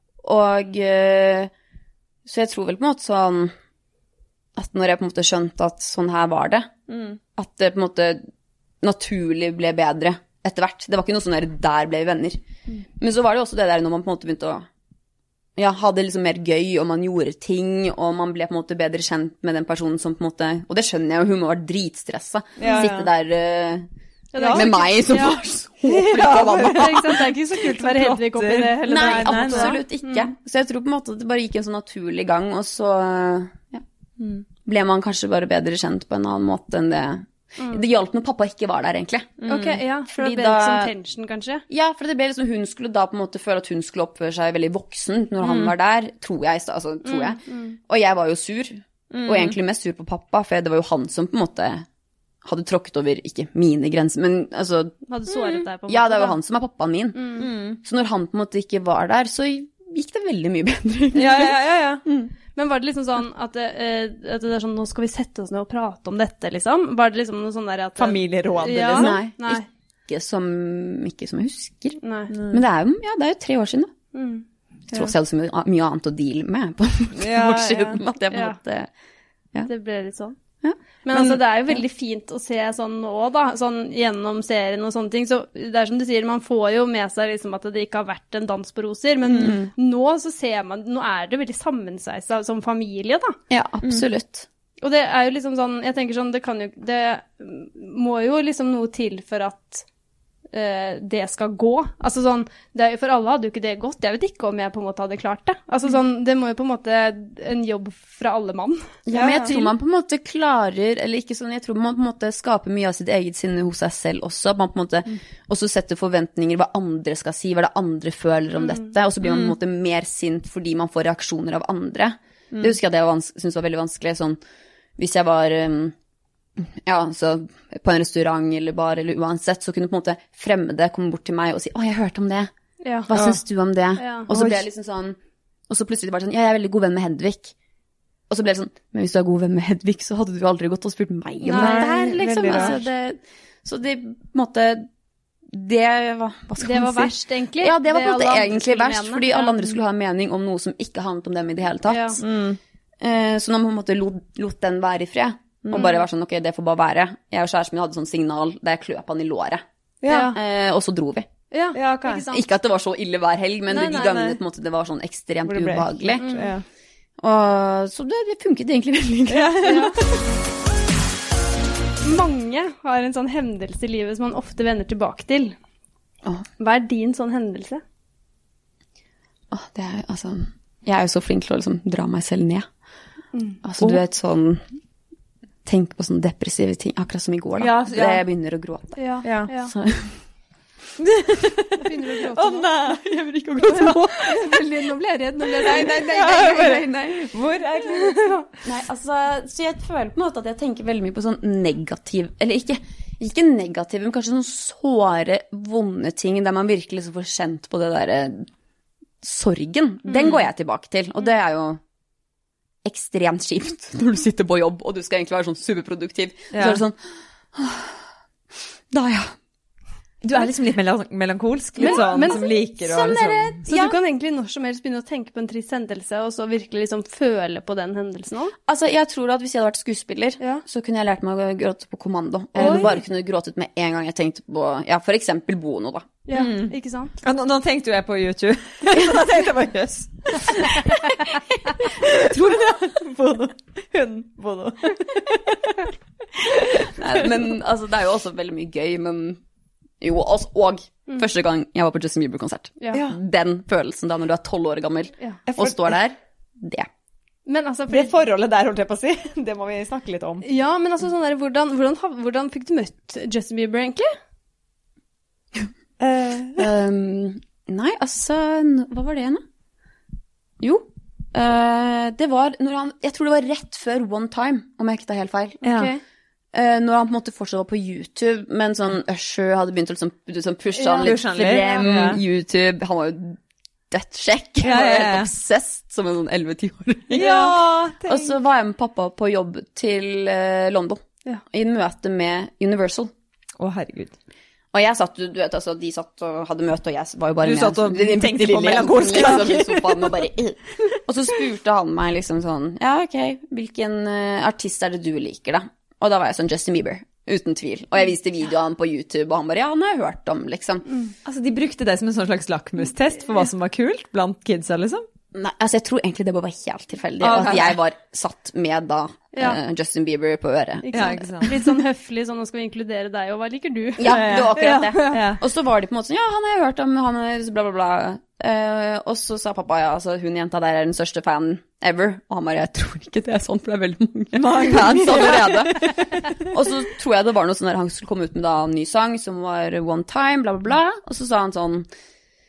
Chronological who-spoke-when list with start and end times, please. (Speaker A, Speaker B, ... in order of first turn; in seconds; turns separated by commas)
Speaker A: 0.2-1.5, Speaker A: 2.2-3.5, Speaker A: 4.5-6.7, Speaker B: 6.9-7.2, Speaker A: 7.3-8.2, Speaker A: 8.8-12.4, Speaker A: 13.0-14.7, Speaker A: 15.6-23.9, Speaker B: 22.6-23.1, Speaker C: 24.3-25.4, Speaker B: 24.4-24.7, Speaker A: 24.5-27.2, Speaker B: 25.9-29.8, Speaker C: 26.4-30.3, Speaker A: 28.8-33.8, Speaker B: 34.2-34.4, Speaker A: 34.6-39.5, Speaker B: 39.4-39.8, Speaker C: 39.5-41.6, Speaker A: 40.1-40.9, Speaker A: 41.7-51.9, Speaker B: 45.4-45.7, Speaker C: 47.0-47.8, Speaker B: 49.1-49.6, Speaker A: 52.4-54.9, Speaker C: 55.1-56.4, Speaker A: 55.9-62.3, Speaker C: 57.1-57.4, Speaker B: 57.4-57.8, Speaker B: 61.1-62.0, Speaker C: 62.5-69.6, Speaker B: 68.0-69.2, Speaker A: 68.9-72.0, Speaker C: 72.0-72.3, Speaker B: 72.3-72.6, Speaker A: 72.5-73.9, Speaker C: 74.1-74.4, Speaker A: 74.9-78.9, Speaker B: 77.2-78.0, Speaker C: 78.3-78.6, Speaker C: 79.7-80.4, Speaker A: 80.6-81.7, Speaker C: 81.0-93.4, Speaker A: 89.3-89.7, Speaker A: 93.5-94.5, Speaker C: 94.8-99.8, Speaker C: 100.5-109.6, Speaker A: 109.1-124.4, Speaker B: 109.1-109.7, Speaker C: 118.6-118.9, Speaker B: 119.2-119.5, Speaker A: 125.0-125.9, Speaker A: 126.6-132.5, Speaker C: 132.8-133.1, Speaker A: 133.1-135.2, Speaker B: 133.1-133.4, Speaker C: 134.0-134.3, Speaker B: 134.3-134.6, Speaker A: 135.7-137.5, Speaker A: 138.3-144.8, Speaker B: 141.4-142.8, Speaker C: 141.4-142.8, Speaker A: 145.5-152.2, Speaker C: 146.6-149.6, Speaker C: 151.9-152.2, Speaker B: 152.2-152.6, Speaker A: 153.0-159.6, Speaker C: 155.7-156.0, Speaker B: 160.0-160.4, Speaker C: 160.1-160.4, Speaker A: 160.3-161.3, Speaker C: 161.5-162.4, Speaker B: 161.7-162.2, Speaker A: 162.3-166.3, Speaker C: 163.7-164.3, Speaker B: 163.8-164.4, Speaker B: 165.4-166.6, Speaker C: 166.2-166.5, Speaker A: 167.2-169.9, Speaker B: 169.3-170.0, Speaker C: 169.6-170.0, Speaker C: 172.0-175.6, Speaker C: 176.6-177.8, Speaker A: 179.5-182.7, Speaker C: 183.3-183.6, Speaker A: 183.6-184.6, Speaker A: 185.6-189.0, Speaker B: 187.6-188.2, Speaker C: 189.0-189.7, Speaker B: 189.2-189.5, Speaker A: 189.6-190.2, Speaker B: 191.0-194.0, Speaker C: 191.8-192.8, Speaker A: 192.9-194.6, Speaker C: 193.7-196.8, Speaker B: 195.6-198.4, Speaker A: 195.6-197.3, Speaker C: 198.0-198.4, Speaker A: 198.6-208.5, Speaker A: 209.2-211.8, Speaker B: 210.1-210.4, Speaker A: 212.8-216.9, Speaker B: 216.5-216.8, Speaker A: 217.5-218.0, Speaker A: 218.9-219.3, Speaker B: 220.2-223.6, Speaker A: 221.8-222.4, Speaker C: 221.8-228.5, Speaker A: 223.7-223.9, Speaker A: 228.7-236.1, Speaker B: 232.6-233.0, Speaker C: 232.6-232.9, Speaker C: 236.2-237.1, Speaker B: 236.3-245.9, Speaker B: 246.4-247.2, Speaker A: 246.8-249.4, Speaker A: 250.0-256.9, Speaker C: 252.8-253.0, Speaker B: 252.9-253.2, Speaker B: 255.5-255.8, Speaker C: 257.4-258.1, Speaker B: 257.9-260.4, Speaker C: 260.4-264.1, Speaker B: 266.0-266.7, Speaker A: 266.6-269.4, Speaker A: 270.6-275.6, Speaker B: 275.6-275.9, Speaker C: 275.6-276.0, Speaker A: 276.5-283.4, Speaker C: 280.8-281.7, Speaker B: 281.0-282.2, Speaker A: 283.9-293.1, Speaker B: 284.6-285.3, Speaker B: 287.1-288.3, Speaker B: 293.6-294.2, Speaker A: 294.7-310.9, Speaker B: 297.4-300.2, Speaker B: 311.2-315.0, Speaker A: 315.3-321.5, Speaker B: 317.2-317.8, Speaker C: 319.3-319.6, Speaker C: 320.8-325.3, Speaker B: 320.9-321.6, Speaker A: 324.0-341.9, Speaker B: 324.0-325.4, Speaker B: 334.3-336.5